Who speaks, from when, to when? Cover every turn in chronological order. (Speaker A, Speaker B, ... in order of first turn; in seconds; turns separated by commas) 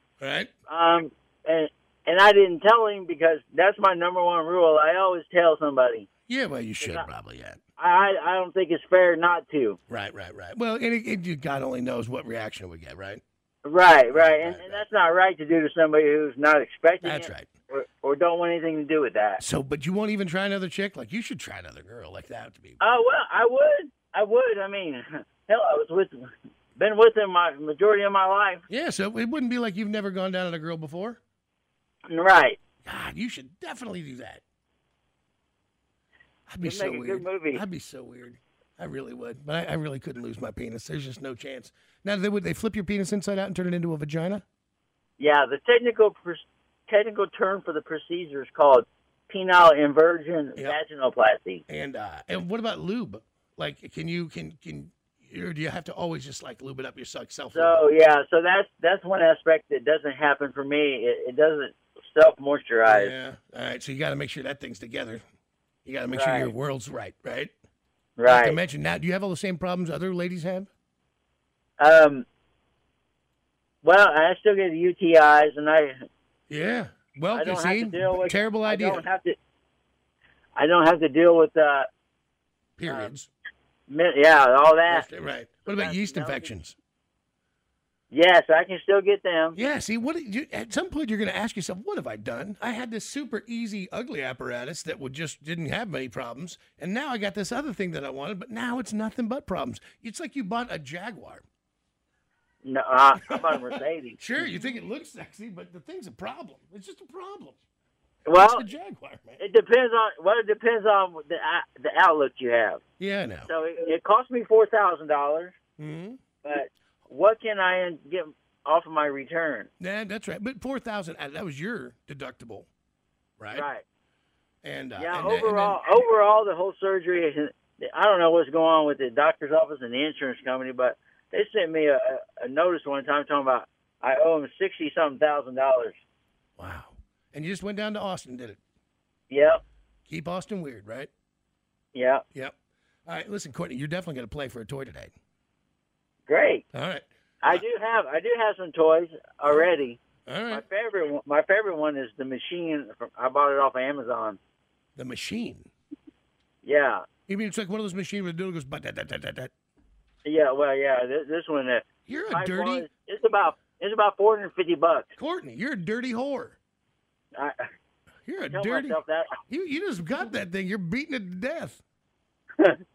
Speaker A: 0.2-0.5, Speaker B: 0.7-6.1, Speaker A: 6.3-7.6, Speaker B: 6.8-7.1, Speaker B: 7.8-9.8, Speaker A: 9.9-13.2, Speaker B: 13.6-19.4, Speaker A: 14.1-14.8, Speaker A: 17.0-17.5, Speaker A: 19.4-22.8, Speaker B: 22.8-28.6, Speaker A: 28.7-31.2, Speaker B: 32.1-32.6, Speaker A: 32.8-34.4, Speaker A: 36.5-44.4, Speaker B: 36.6-37.6, Speaker B: 45.2-51.6, Speaker A: 51.7-57.8, Speaker B: 57.5-63.1, Speaker A: 62.9-65.2, Speaker A: 65.8-67.5, Speaker B: 66.1-66.5, Speaker B: 68.2-68.6, Speaker A: 68.2-70.7, Speaker B: 71.8-72.2, Speaker B: 73.8-76.0, Speaker A: 76.5-79.0, Speaker B: 77.3-79.3, Speaker B: 80.5-81.9, Speaker A: 82.8-83.3, Speaker B: 83.9-85.0, Speaker A: 84.9-86.7, Speaker B: 85.7-86.5, Speaker B: 88.1-89.6, Speaker A: 89.5-101.4, Speaker B: 102.6-104.5, Speaker A: 103.3-103.6, Speaker A: 104.2-107.6, Speaker B: 108.2-108.7, Speaker A: 108.3-109.4, Speaker B: 109.4-112.8, Speaker A: 113.0-113.5, Speaker B: 113.5-115.5, Speaker A: 115.8-116.2, Speaker B: 116.4-119.7, Speaker A: 119.8-122.7, Speaker A: 123.4-123.7, Speaker B: 123.5-123.8, Speaker A: 124.6-125.8, Speaker B: 125.0-136.0, Speaker A: 136.6-138.6, Speaker B: 139.3-139.6, Speaker A: 140.1-141.1, Speaker B: 141.9-142.2, Speaker A: 143.1-145.1, Speaker B: 146.3-146.6, Speaker A: 146.7-147.6, Speaker B: 147.4-150.0, Speaker A: 150.2-150.6, Speaker B: 150.5-154.4, Speaker A: 154.9-155.7, Speaker B: 156.6-157.0, Speaker A: 157.3-159.5, Speaker B: 160.2-165.1, Speaker A: 162.1-162.9, Speaker A: 165.2-166.6, Speaker B: 167.3-167.7, Speaker A: 168.2-171.8, Speaker B: 168.5-169.4